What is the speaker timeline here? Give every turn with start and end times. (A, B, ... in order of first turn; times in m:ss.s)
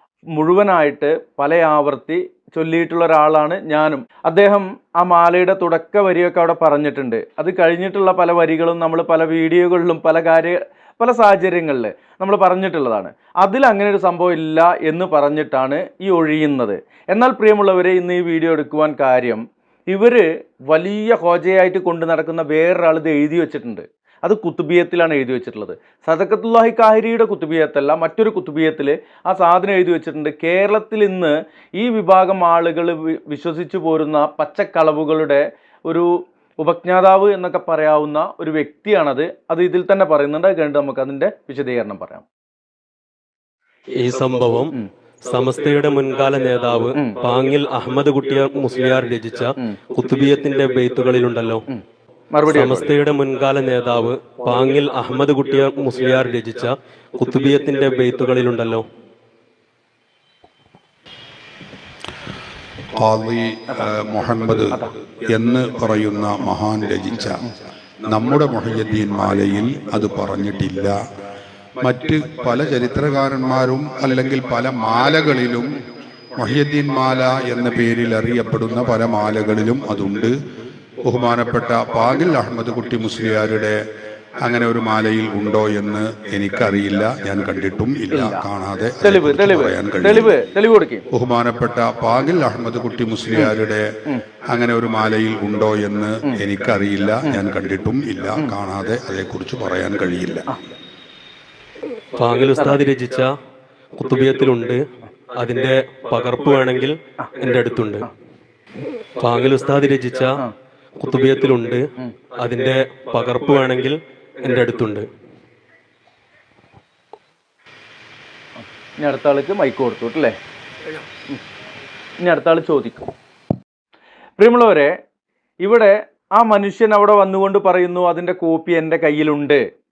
0:00.3-0:42.2 A
0:44.0-0:44.7 B
0:45.2-0:51.6 B
0:52.3-0:52.9 A
0:52.5-0:58.8 B
1:02.9-1:04.7 C
1:05.2-1:07.3 C
1:08.0-1:11.0 C
1:11.8-1:15.8 C
1:16.4-1:20.3 C
1:21.0-1:23.8 C
1:24.4-1:30.3 C
1:28.1-1:28.4 A
1:29.0-1:31.0 A
1:31.1-1:33.9 C
1:34.5-1:40.5 C
1:42.1-1:43.3 B
1:44.0-1:44.8 B
1:45.4-1:48.1 B
1:49.2-1:50.3 B
1:51.0-1:51.8 B
1:52.4-1:55.0 B
1:59.0-2:00.3 A
2:02.2-2:03.1 A
2:04.4-2:04.9 A
2:05.6-2:09.6 A